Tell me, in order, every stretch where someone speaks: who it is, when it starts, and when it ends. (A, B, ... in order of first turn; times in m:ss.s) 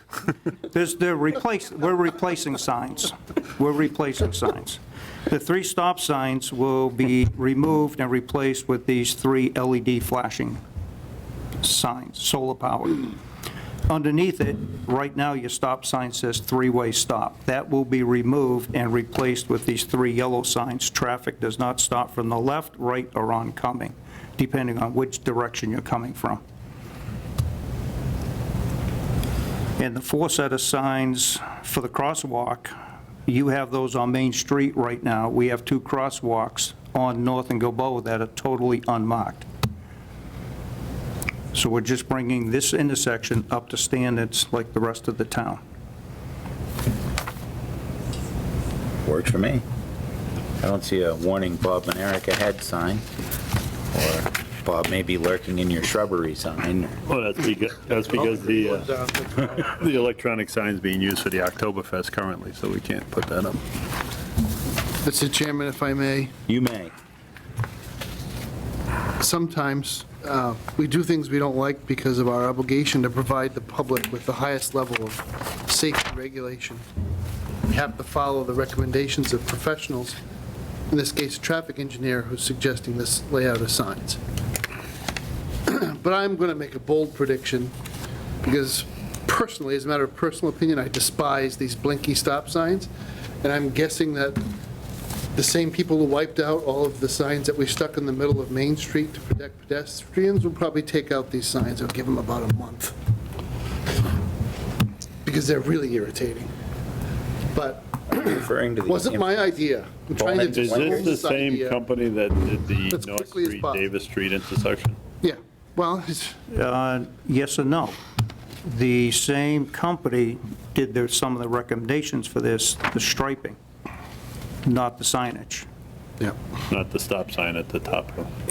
0:00.6-0:10.6 A
0:11.6-0:13.2 A
0:13.9-0:26.4 A
0:29.8-0:32.7 A
0:33.3-0:39.5 A
0:41.5-0:45.6 A
0:49.0-0:49.6 B
0:50.6-0:53.0 B
0:53.9-0:57.0 B
0:57.0-0:58.9 C
0:58.0-0:59.7 D
0:59.6-1:03.6 C
1:05.0-1:06.3 D
1:06.5-1:07.0 B
1:09.2-1:16.8 D
1:17.7-1:20.2 D
1:20.9-1:24.2 D
1:25.7-1:27.7 D
1:28.4-1:32.9 D
1:33.4-1:34.4 D
1:35.4-1:43.0 D
1:45.2-1:46.5 D
1:47.5-1:51.8 D
1:48.1-1:49.4 B
1:50.2-1:51.2 B
1:50.5-1:55.0 C
1:52.9-1:53.9 D
1:55.2-1:56.4 D
1:56.5-1:58.0 A
1:58.6-2:03.6 A
2:04.6-2:05.7 A
2:06.7-2:08.3 C